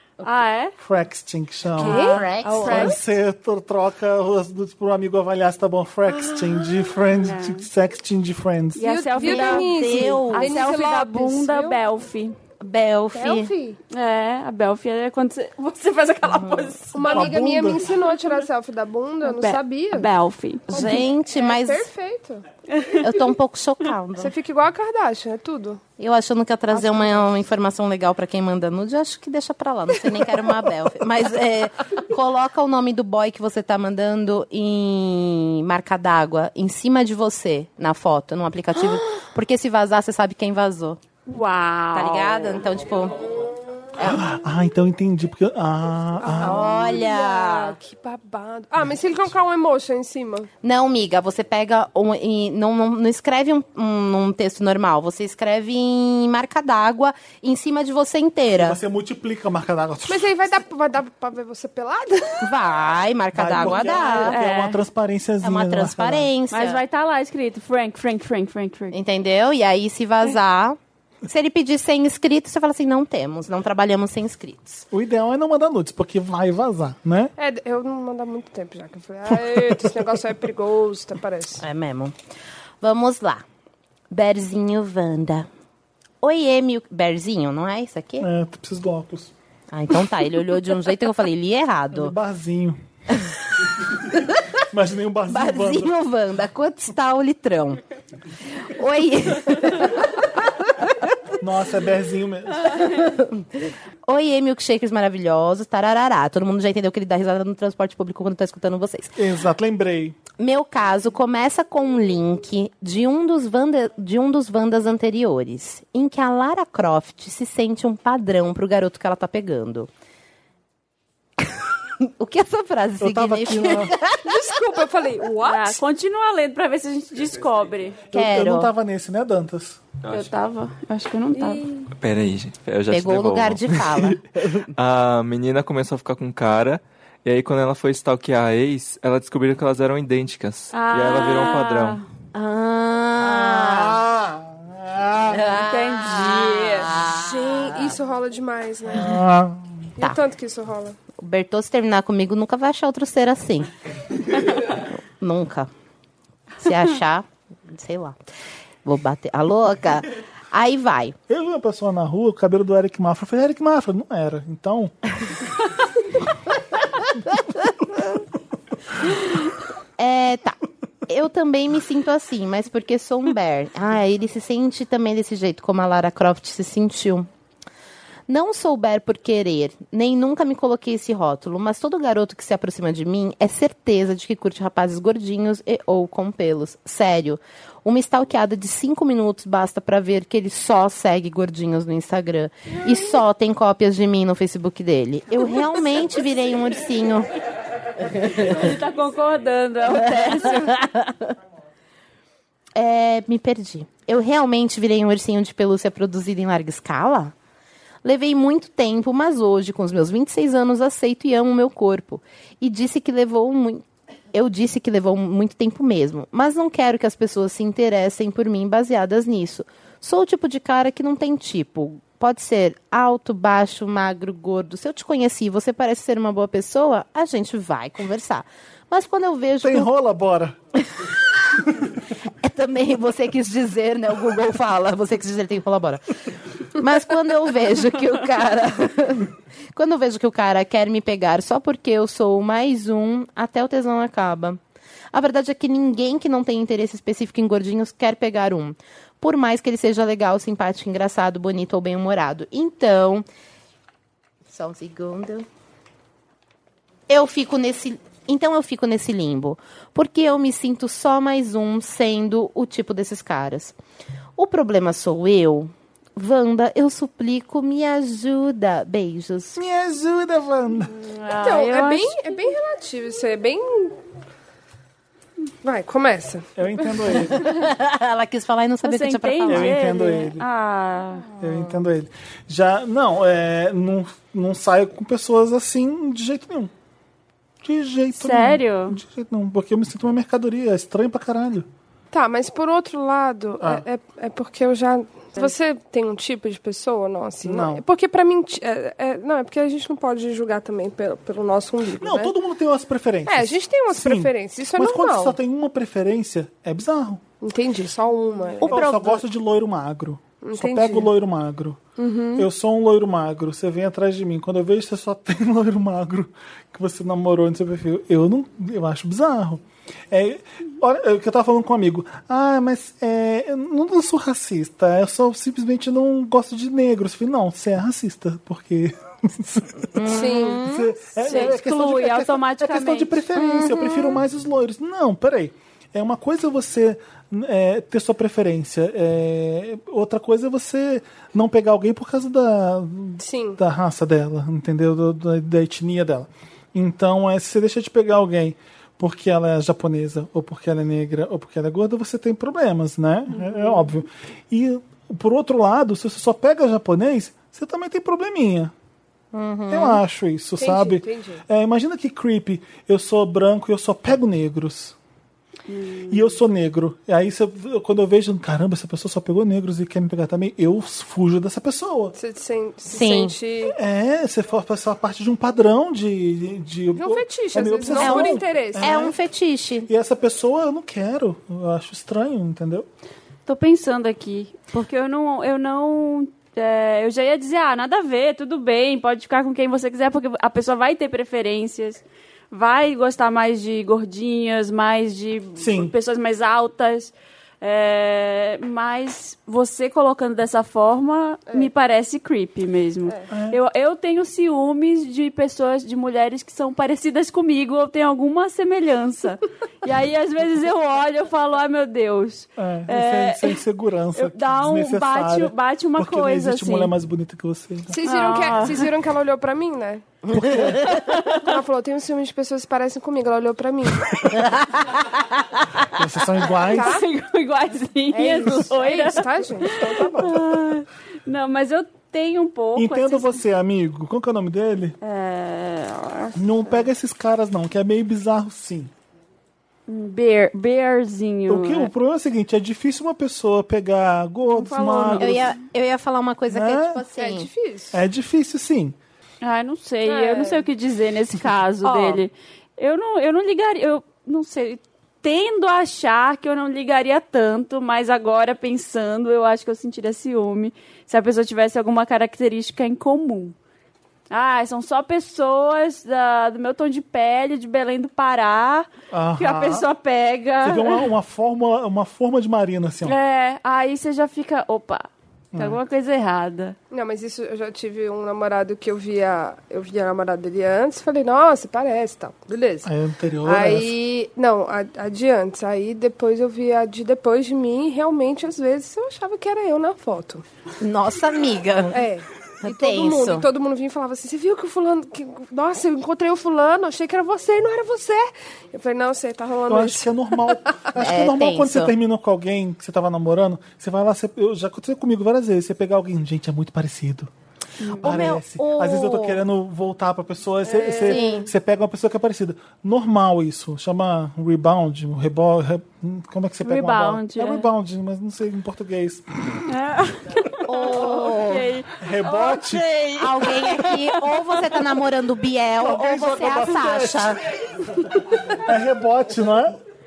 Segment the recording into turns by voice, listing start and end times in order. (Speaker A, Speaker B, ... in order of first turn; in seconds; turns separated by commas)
Speaker A: 0.2-0.7, Speaker B: 0.8-8.9, Speaker C: 1.8-3.0, Speaker A: 1.8-2.9, Speaker D: 1.9-2.9, Speaker A: 7.2-7.7, Speaker A: 8.8-12.3, Speaker C: 8.8-11.8, Speaker D: 9.2-10.7, Speaker D: 12.6-13.5, Speaker C: 13.1-13.8, Speaker A: 13.9-17.3, Speaker D: 16.4-16.7, Speaker C: 16.9-20.1, Speaker B: 17.1-17.9, Speaker A: 19.2-20.9, Speaker D: 20.7-21.9, Speaker C: 20.7-22.4, Speaker A: 22.7-23.0, Speaker D: 22.9-24.3, Speaker C: 24.2-25.8, Speaker D: 26.0-41.0, Speaker C: 26.7-27.2, Speaker A: 41.3-42.6, Speaker D: 41.9-44.2, Speaker B: 44.0-46.7, Speaker C: 46.2-50.5, Speaker D: 46.4-47.8, Speaker D: 50.6-58.8, Speaker B: 58.5-60.5, Speaker C: 60.1-62.5, Speaker D: 62.4-64.4, Speaker B: 63.3-66.3, Speaker A: 64.2-64.8, Speaker D: 65.4-66.8, Speaker A: 66.5-69.0, Speaker D: 68.9-74.8, Speaker B: 74.9-77.3, Speaker C: 77.4-81.6, Speaker B: 79.4-79.9, Speaker D: 81.6-82.1, Speaker D: 82.8-83.4, Speaker D: 84.1-85.5, Speaker D: 86.2-88.3, Speaker B: 88.2-89.3, Speaker D: 89.7-92.1, Speaker B: 91.9-92.8, Speaker D: 94.1-94.4, Speaker B: 94.7-95.9, Speaker D: 95.3-97.8, Speaker D: 98.6-100.2, Speaker B: 101.4-103.0, Speaker D: 102.7-109.1, Speaker B: 109.2-110.2, Speaker D: 110.4-119.9, Speaker D: 122.0-124.4, Speaker B: 123.0-124.0, Speaker C: 124.2-125.8, Speaker A: 125.4-128.0, Speaker B: 128.1-129.8, Speaker D: 128.1-128.7, Speaker A: 130.1-131.7, Speaker C: 131.3-131.8, Speaker E: 132.0-134.2, Speaker D: 132.9-134.7, Speaker E: 134.7-142.0, Speaker A: 140.7-142.0, Speaker D: 142.3-144.0, Speaker B: 143.2-145.5, Speaker D: 145.3-147.9, Speaker A: 145.5-146.9, Speaker C: 147.0-149.2, Speaker B: 148.9-149.7, Speaker C: 150.0-151.0, Speaker D: 151.2-153.7, Speaker D: 154.4-155.7, Speaker D: 156.6-158.2, Speaker D: 158.8-161.1, Speaker B: 161.3-164.9, Speaker D: 170.0-177.3, Speaker D: 178.3-197.3, Speaker D: 198.1-198.6, Speaker A: 198.3-200.8, Speaker D: 199.9-201.2, Speaker D: 202.7-207.3, Speaker D: 208.0-229.9, Speaker B: 229.6-230.6, Speaker D: 231.0-231.6, Speaker D: 232.4-244.6, Speaker D: 245.1-253.2, Speaker D: 254.5-255.4, Speaker D: 257.1-263.8, Speaker D: 264.4-269.6, Speaker B: 269.5-270.9, Speaker A: 270.9-272.2, Speaker C: 271.4-274.0, Speaker C: 275.6-277.4, Speaker B: 276.6-277.6, Speaker D: 277.3-279.8, Speaker A: 278.8-281.3, Speaker B: 279.5-280.4, Speaker B: 281.4-286.7, Speaker B: 287.6-291.7, Speaker A: 288.2-289.0, Speaker C: 292.1-302.3, Speaker B: 297.4-297.8, Speaker B: 302.0-307.2, Speaker C: 303.3-305.4, Speaker C: 307.4-308.9, Speaker A: 308.6-309.2, Speaker B: 308.6-311.8, Speaker C: 310.4-311.1, Speaker C: 312.0-312.5, Speaker B: 312.4-358.7, Speaker D: 329.9-330.9, Speaker C: 330.0-330.6, Speaker A: 331.2-333.2, Speaker D: 333.3-334.2, Speaker C: 343.2-343.6, Speaker D: 359.3-360.0, Speaker B: 359.7-364.9, Speaker C: 360.6-361.4, Speaker A: 365.7-366.3, Speaker B: 366.1-372.1, Speaker C: 372.1-373.8, Speaker D: 372.9-373.3, Speaker B: 373.7-379.1, Speaker C: 376.9-378.9, Speaker D: 377.9-379.9, Speaker B: 379.9-382.9, Speaker A: 383.4-413.6, Speaker B: 395.6-395.9, Speaker B: 403.3-403.6, Speaker B: 412.6-418.0, Speaker A: 414.1-416.9, Speaker C: 417.9-420.1, Speaker A: 418.0-418.9, Speaker B: 420.3-421.0, Speaker D: 420.3-420.7, Speaker A: 420.8-421.4, Speaker C: 421.1-424.5, Speaker B: 425.9-427.0, Speaker A: 426.6-433.4, Speaker C: 426.6-427.0, Speaker C: 428.2-430.4, Speaker B: 429.9-430.4, Speaker B: 432.8-434.9, Speaker A: 435.0-436.4, Speaker B: 436.3-438.9, Speaker A: 439.9-441.9, Speaker B: 441.5-445.5, Speaker A: 444.5-445.5, Speaker D: 445.2-447.5, Speaker B: 446.5-447.0, Speaker C: 447.2-448.0, Speaker B: 447.9-448.9, Speaker A: 449.4-463.5, Speaker C: 450.0-450.6, Speaker C: 451.8-452.2, Speaker A: 464.3-471.1, Speaker B: 469.1-469.9, Speaker B: 470.6-473.2, Speaker A: 473.0-476.8, Speaker B: 475.5-475.8, Speaker C: 476.9-482.9, Speaker B: 482.8-483.9, Speaker C: 483.4-490.4, Speaker D: 490.8-492.1, Speaker C: 491.9-500.9, Speaker D: 492.6-493.5, Speaker B: 499.7-507.3, Speaker D: 501.0-501.9, Speaker A: 507.8-508.1, Speaker B: 508.0-519.7, Speaker D: 508.0-509.4, Speaker C: 510.6-511.4, Speaker D: 511.0-511.5, Speaker A: 516.6-517.7, Speaker A: 519.7-524.8, Speaker D: 520.6-521.7, Speaker B: 522.0-522.9, Speaker D: 523.2-527.4, Speaker B: 525.8-527.4, Speaker B: 528.0-529.8